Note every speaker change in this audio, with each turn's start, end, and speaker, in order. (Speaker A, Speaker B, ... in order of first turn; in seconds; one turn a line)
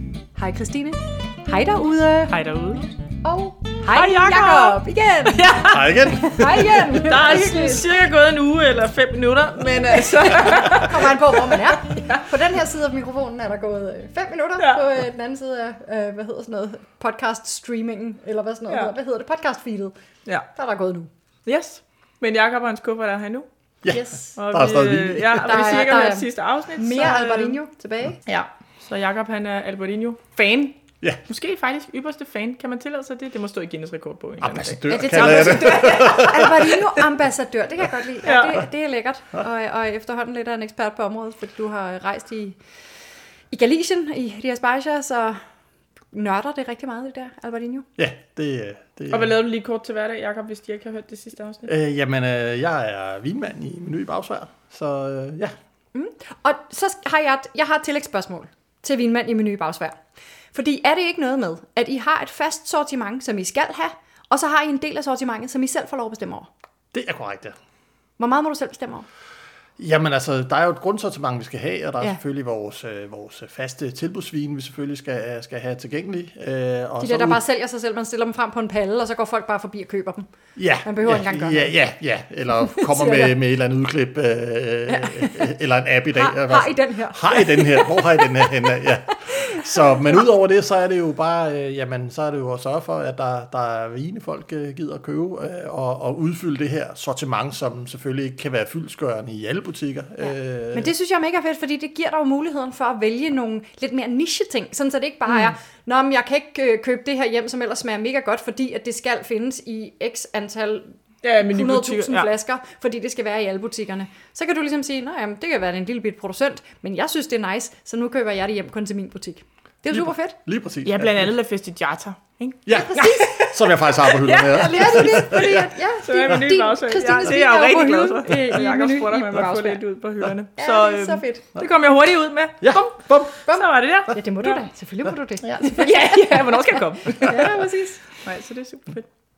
Speaker A: 0.4-2.4
Speaker B: 2.3-2.9
Speaker A: 3.2-7.9
Speaker B: 3.9-12.2
Speaker C: 5.7-6.4
Speaker A: 10.2-19.9
Speaker A: 20.5-21.1
Speaker B: 21.5-23.5
Speaker C: 23.8-25.6
Speaker A: 23.9-24.4
Speaker B: 24.4-27.6
Speaker A: 25.4-28.2
Speaker B: 28.3-30.8
Speaker B: 31.3-36.0
Speaker C: 34.4-37.0
Speaker A: 34.9-42.6
Speaker B: 38.2-38.6
Speaker A: 43.5-45.4
Speaker A: 46.1-47.9
Speaker C: 48.0-49.4
Speaker B: 49.1-51.7
Speaker C: 51.7-55.5
Speaker A: 55.9-60.0
Speaker A: 60.5-66.5
Speaker C: 66.9-67.6
Speaker A: 68.2-69.1
Speaker C: 69.8-77.4
Speaker A: 77.0-80.3
Speaker C: 80.6-100.9
Speaker A: 80.8-81.8
Speaker A: 82.6-83.4
Speaker A: 84.9-85.5
Speaker A: 86.1-89.9
Speaker A: 100.2-120.4
Speaker B: 105.3-105.5
Speaker B: 111.2-112.3
Speaker C: 119.9-121.3
Speaker B: 120.8-123.5
Speaker C: 122.7-125.7
Speaker A: 122.7-129.8
Speaker B: 124.2-125.3
Speaker B: 126.0-134.6
Speaker A: 130.6-131.5
Speaker C: 132.6-133.3
Speaker A: 133.4-138.0
Speaker B: 135.4-137.7
Speaker B: 138.2-139.1